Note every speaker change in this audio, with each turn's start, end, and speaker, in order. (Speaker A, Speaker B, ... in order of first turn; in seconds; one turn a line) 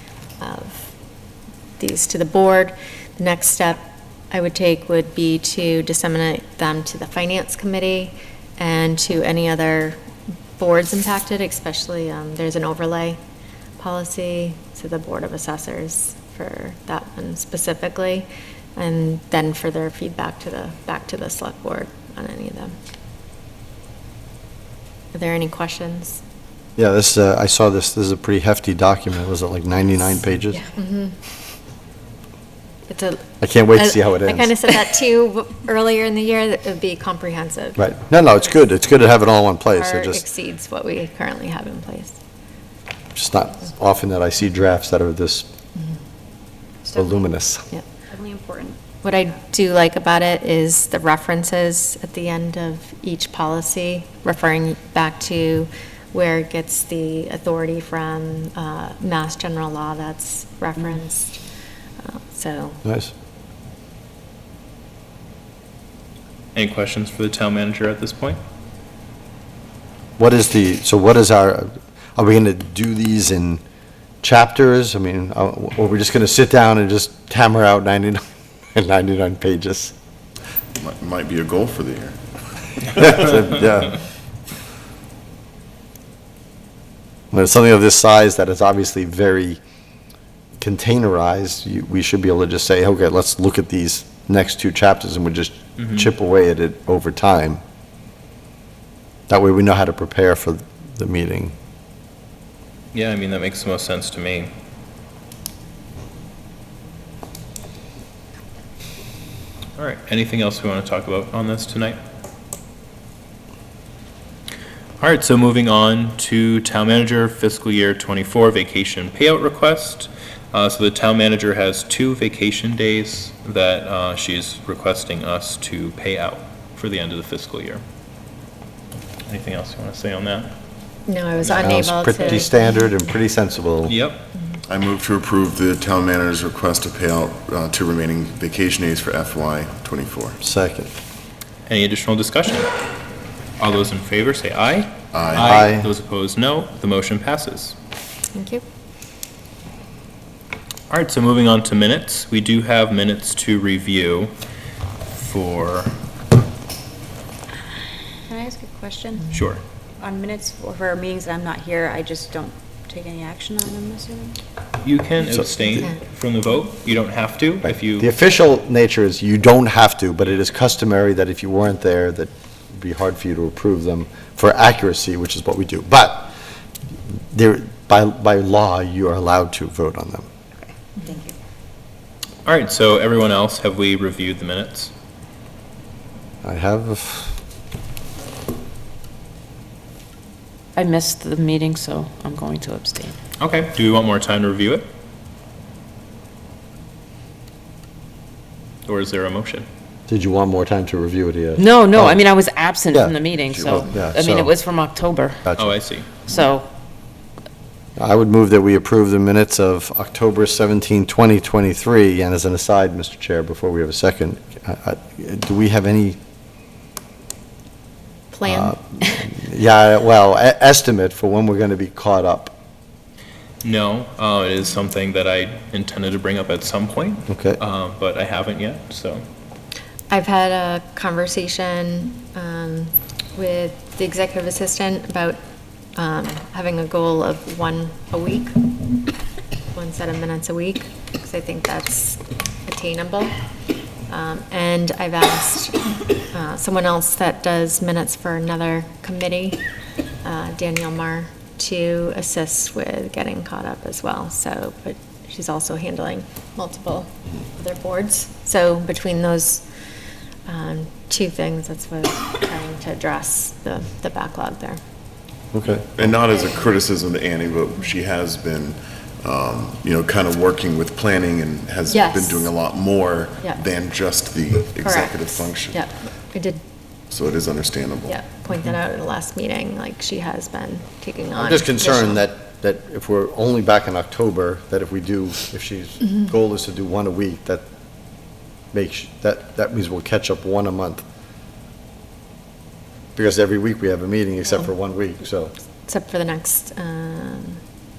Speaker A: 0.4-0.9
Speaker A: 1.8-10.0
Speaker A: 10.6-13.2
Speaker A: 13.8-22.7
Speaker A: 25.1-26.2
Speaker B: 26.8-30.7
Speaker A: 30.7-31.1
Speaker A: 32.9-37.8
Speaker B: 33.4-34.5
Speaker B: 37.8-40.2
Speaker A: 39.7-42.2
Speaker B: 43.1-45.5
Speaker C: 46.8-47.1
Speaker B: 46.9-47.7
Speaker C: 48.0-48.8
Speaker A: 49.0-61.4
Speaker A: 62.0-62.8
Speaker B: 62.8-63.1
Speaker D: 66.5-68.4
Speaker B: 70.2-73.6
Speaker B: 74.2-78.2
Speaker B: 78.7-79.9
Speaker E: 80.8-82.2
Speaker B: 82.9-84.0
Speaker B: 87.3-89.6
Speaker B: 90.6-97.6
Speaker D: 95.8-96.1
Speaker B: 99.3-101.5
Speaker D: 102.9-104.5
Speaker D: 109.8-112.0
Speaker D: 115.0-127.8
Speaker D: 129.3-130.5
Speaker A: 131.1-132.7
Speaker D: 131.4-131.8
Speaker B: 131.6-134.0
Speaker D: 133.8-134.3
Speaker E: 134.7-140.4
Speaker B: 140.4-140.9
Speaker D: 141.7-142.7
Speaker D: 143.6-147.7
Speaker E: 145.1-145.6
Speaker B: 145.4-145.9
Speaker A: 148.3-148.6
Speaker D: 150.9-154.3
Speaker D: 155.1-155.9
Speaker C: 158.3-159.2
Speaker D: 159.3-159.6
Speaker C: 160.0-164.3
Speaker D: 164.8-168.1
Speaker B: 167.6-176.3
Speaker B: 177.3-180.3
Speaker C: 180.6-181.3
Speaker D: 182.4-184.9
Speaker B: 186.4-187.3
Speaker F: 190.8-193.2
Speaker D: 193.4-194.9
Speaker D: 198.8-199.7
Speaker B: 200.1-202.2
Speaker F: 201.6-205.4
Speaker B: 202.9-204.5
Speaker B: 205.4-205.7
Speaker D: 205.6-206.1
Speaker F: 206.2-206.7
Speaker B: 208.0-216.2
Speaker A: 218.3-218.8
Speaker B: 218.5-222.5
Speaker D: 223.6-229.2
Speaker B: 227.3-227.6
Speaker A: 230.1-235.4
Speaker A: 235.9-239.0
Speaker A: 239.7-243.3
Speaker A: 244.1-249.6
Speaker A: 250.2-259.6
Speaker A: 260.4-264.8
Speaker B: 265.5-266.1
Speaker E: 266.0-275.8
Speaker A: 271.9-272.5
Speaker A: 274.8-276.6
Speaker E: 277.1-278.2
Speaker A: 278.1-282.2
Speaker B: 281.4-287.6
Speaker B: 288.7-291.0
Speaker B: 293.1-295.5
Speaker A: 295.9-297.6